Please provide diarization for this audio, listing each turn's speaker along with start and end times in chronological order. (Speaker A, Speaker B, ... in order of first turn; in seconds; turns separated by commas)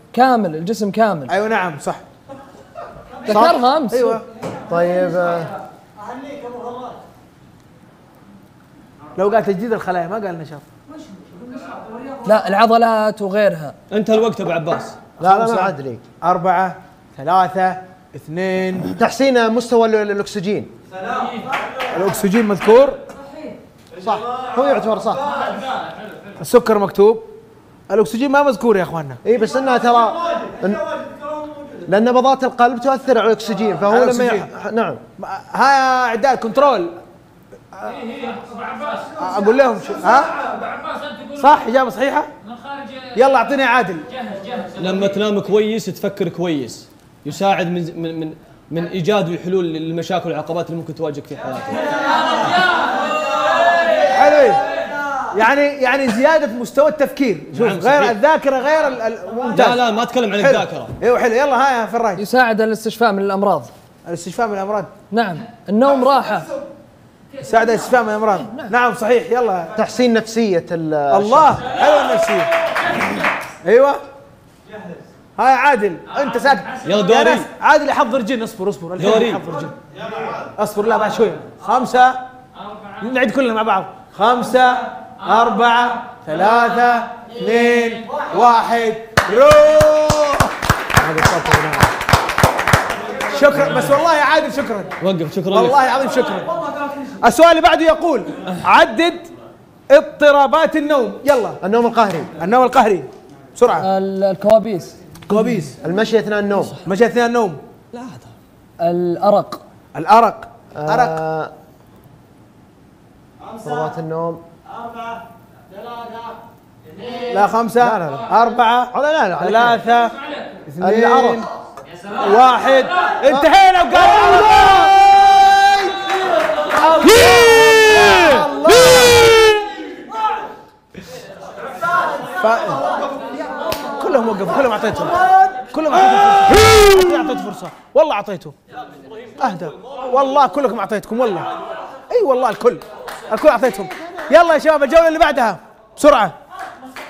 Speaker A: 0.1-1.3, Speaker B: 1.3-2.0, Speaker C: 3.3-3.6, Speaker A: 3.3-4.2, Speaker B: 3.9-4.2, Speaker C: 4.7-5.5, Speaker B: 9.2-10.7, Speaker A: 12.2-13.8, Speaker D: 13.9-15.0, Speaker C: 15.2-16.0, Speaker B: 15.2-18.9, Speaker C: 18.9-20.7, Speaker B: 21.9-23.0, Speaker C: 24.0-25.2, Speaker B: 26.4-27.3, Speaker B: 27.9-29.2, Speaker C: 29.2-30.9, Speaker C: 31.9-35.0, Speaker B: 33.9-34.5, Speaker B: 35.2-37.0, Speaker B: 37.7-38.0, Speaker B: 39.0-40.3, Speaker B: 41.4-42.3, Speaker B: 43.1-44.1, Speaker D: 44.8-52.0, Speaker B: 54.0-54.6, Speaker B: 55.3-62.2, Speaker D: 57.5-58.2, Speaker D: 59.5-60.9, Speaker A: 62.2-63.7, Speaker B: 64.1-65.0, Speaker A: 65.1-66.5, Speaker B: 67.4-69.7, Speaker C: 69.8-71.6, Speaker B: 71.1-72.5, Speaker B: 73.6-74.0, Speaker B: 75.4-79.7, Speaker D: 76.8-77.5, Speaker D: 79.0-79.4, Speaker B: 80.6-82.2, Speaker B: 83.0-90.5, Speaker B: 91.5-91.8, Speaker B: 93.3-94.9, Speaker D: 95.0-95.8, Speaker B: 95.5-96.5, Speaker B: 97.2-99.3, Speaker B: 99.9-101.6, Speaker C: 101.6-102.3, Speaker B: 102.4-103.9, Speaker A: 103.8-105.0, Speaker B: 105.3-105.7, Speaker C: 105.8-106.8, Speaker B: 106.8-107.6, Speaker D: 107.9-108.3, Speaker A: 108.8-109.6, Speaker B: 109.9-111.2, Speaker C: 110.8-111.5, Speaker C: 113.6-114.4, Speaker B: 117.2-120.2, Speaker C: 117.8-118.3, Speaker C: 118.9-119.8, Speaker B: 120.7-121.5, Speaker C: 120.8-121.4, Speaker B: 122.2-125.0, Speaker B: 126.7-129.3, Speaker B: 132.4-132.8, Speaker B: 134.0-138.6, Speaker B: 139.4-141.5, Speaker B: 142.1-146.3